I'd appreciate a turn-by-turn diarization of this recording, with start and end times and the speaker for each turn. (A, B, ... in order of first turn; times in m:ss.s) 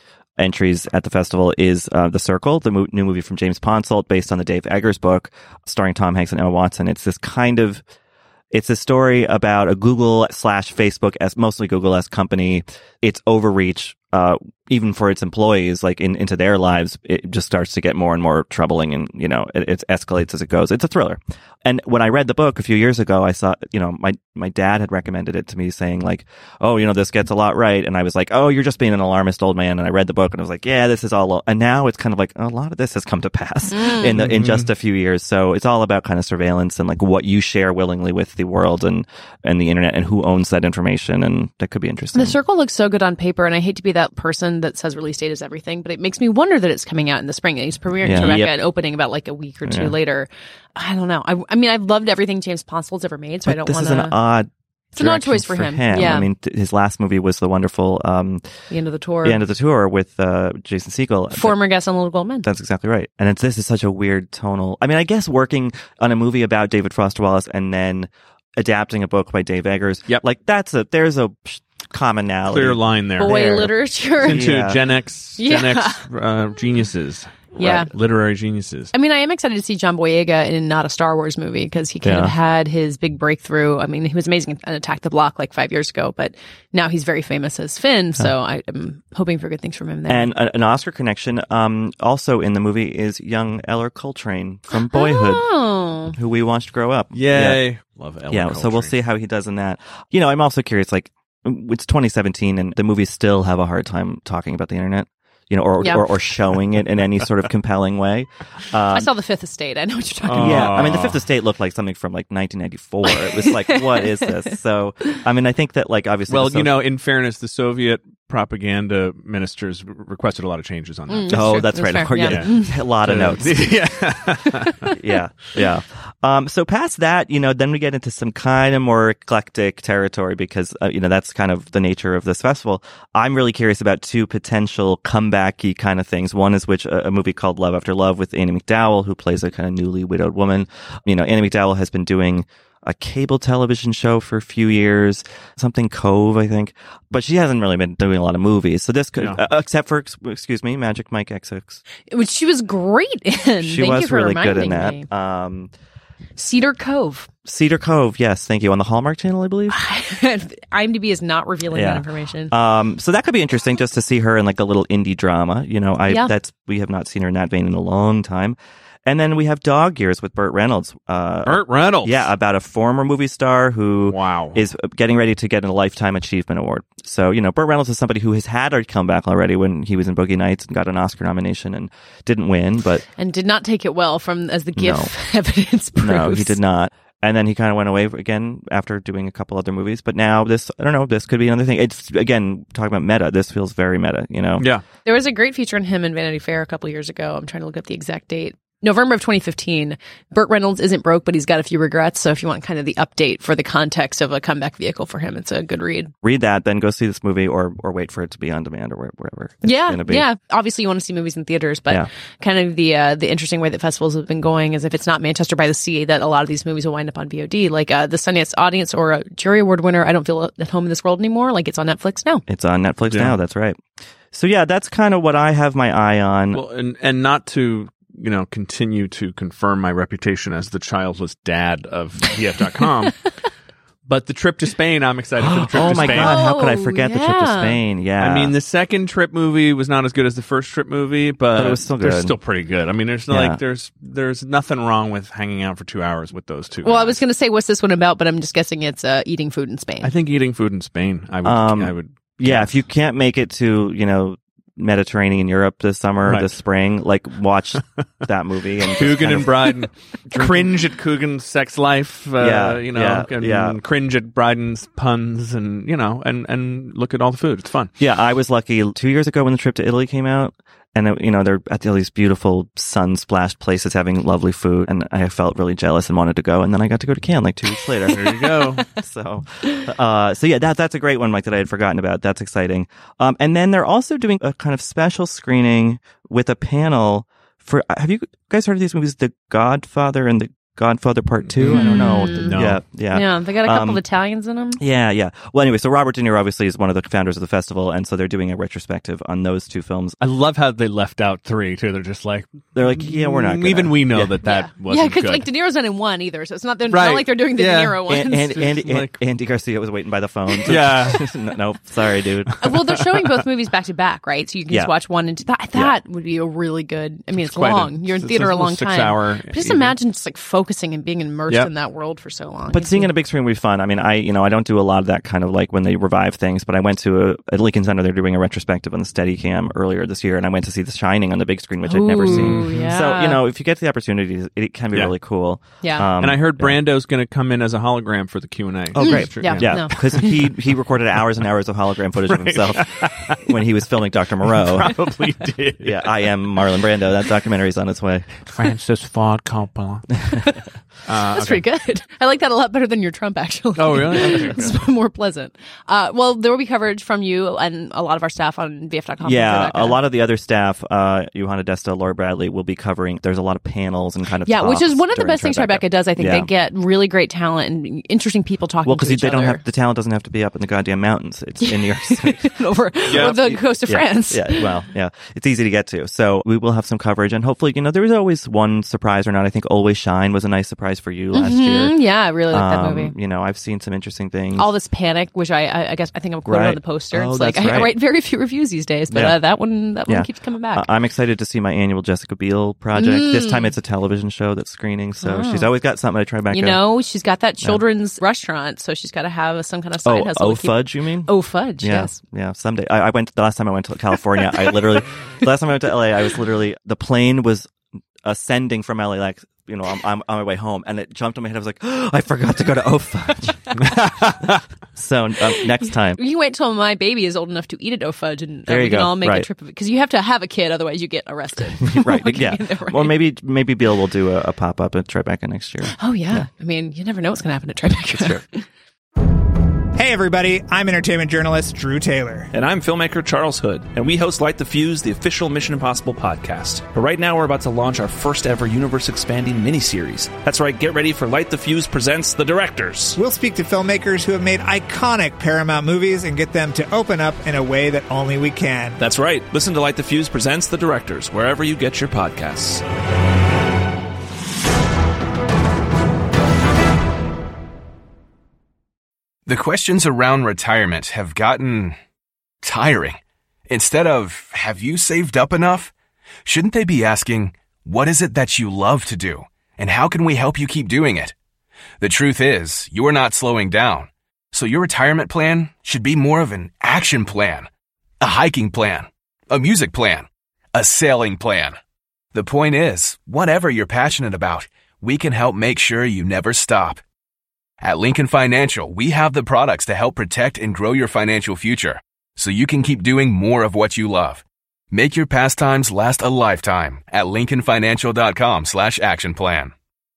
0:00.4-0:07.8 A
0:08.5-0:42.4 A
0:33.7-0:34.1 B
0:34.1-0:34.7 C
0:42.1-0:54.1 B
0:48.0-0:48.6 A
0:49.7-0:49.9 A
0:53.5-0:58.4 A
0:55.0-0:56.3 B
0:58.7-0:59.4 B
0:59.2-1:01.6 A
1:01.3-1:02.5 B
1:02.4-1:14.8 A
1:12.5-1:18.9 C
1:13.2-1:14.5 B
1:15.4-1:16.0 B
1:17.6-1:17.9 B
1:18.9-1:30.3 B
1:22.0-1:22.3 A
1:30.1-1:35.5 A
1:34.7-1:36.1 B
1:36.1-1:37.7 A
1:37.1-1:39.0 C
1:38.3-1:49.1 A
1:45.8-1:46.1 B
1:48.9-1:50.9 B
1:50.2-1:51.2 C
1:50.4-1:56.8 A
1:53.1-1:55.2 B
1:56.3-2:04.9 C
2:01.1-2:02.8 B
2:01.3-2:04.1 A
2:04.9-2:31.8 A
2:32.1-2:35.1 B
2:33.6-2:35.7 A
2:36.4-2:37.3 B
2:37.5-2:39.8 A
2:39.7-2:42.5 B
2:41.7-3:03.0 A
2:46.1-2:46.3 B
2:51.4-2:52.3 C
2:54.1-2:54.6 C
3:03.2-3:06.6 B
3:04.8-3:05.1 A
3:06.0-3:14.7 A
3:14.6-3:14.8 C
3:15.0-3:26.1 B
3:26.2-3:30.2 A
3:29.6-3:42.4 B
3:42.5-3:43.8 A
3:43.1-3:43.4 C
3:44.3-3:46.6 A
3:46.5-3:53.3 C
3:54.0-3:56.4 C
3:55.4-3:58.5 A
3:55.9-3:57.8 B
3:58.2-4:07.2 C
4:01.6-4:02.4 A
4:03.3-4:03.6 A
4:06.8-4:10.1 B
4:10.0-4:12.8 C
4:11.4-4:20.8 A
4:18.9-4:27.9 C
4:22.4-4:23.8 A
4:28.0-4:54.0 A
4:38.1-4:38.8 C
4:51.5-4:52.8 C
4:51.7-4:52.5 B
4:53.1-4:54.8 B
4:54.8-5:00.2 A
5:00.2-5:05.5 C
5:02.8-5:04.4 A
5:04.4-5:08.5 B
5:06.9-5:09.2 C
5:08.1-5:12.7 A
5:10.7-5:11.4 C
5:12.6-5:23.1 B
5:17.4-5:20.0 C
5:22.7-5:36.8 A
5:31.9-5:33.4 B
5:32.3-5:32.9 C
5:35.8-5:36.1 B
5:36.2-5:40.5 C
5:38.9-5:45.1 A
5:39.0-5:40.4 B
5:42.3-5:43.5 C
5:44.5-5:46.1 C
5:45.8-5:48.5 A
5:48.5-5:50.4 C
5:51.0-5:51.6 C
5:51.2-6:00.0 B
5:53.8-5:54.7 C
5:54.3-5:54.6 A
5:59.2-6:06.5 A
6:04.5-6:09.6 B
6:08.8-6:12.5 A
6:11.7-6:14.7 B
6:13.0-6:24.7 A
6:13.1-6:13.4 C
6:21.3-6:23.1 B
6:24.6-6:30.9 B
6:26.5-6:27.9 A
6:29.1-6:29.4 A
6:30.0-6:36.8 A
6:33.0-6:33.7 B
6:35.2-6:35.7 B
6:36.5-6:42.2 B
6:40.0-6:47.7 A
6:48.2-6:56.2 A
6:54.2-6:54.4 C
6:55.8-7:03.2 B
6:58.7-6:59.5 A
7:01.9-7:06.5 A
7:06.0-7:08.6 B
7:08.1-7:08.4 A
7:10.0-7:12.5 D
7:12.5-7:23.2 E
7:23.2-7:29.0 D
7:29.0-7:32.8 E
7:39.5-7:42.0 F
7:42.6-7:45.9 F
7:46.5-7:51.3 F
7:52.0-7:57.7 F
7:58.2-8:01.8 F
8:02.3-8:07.0 F
8:07.8-8:19.7 F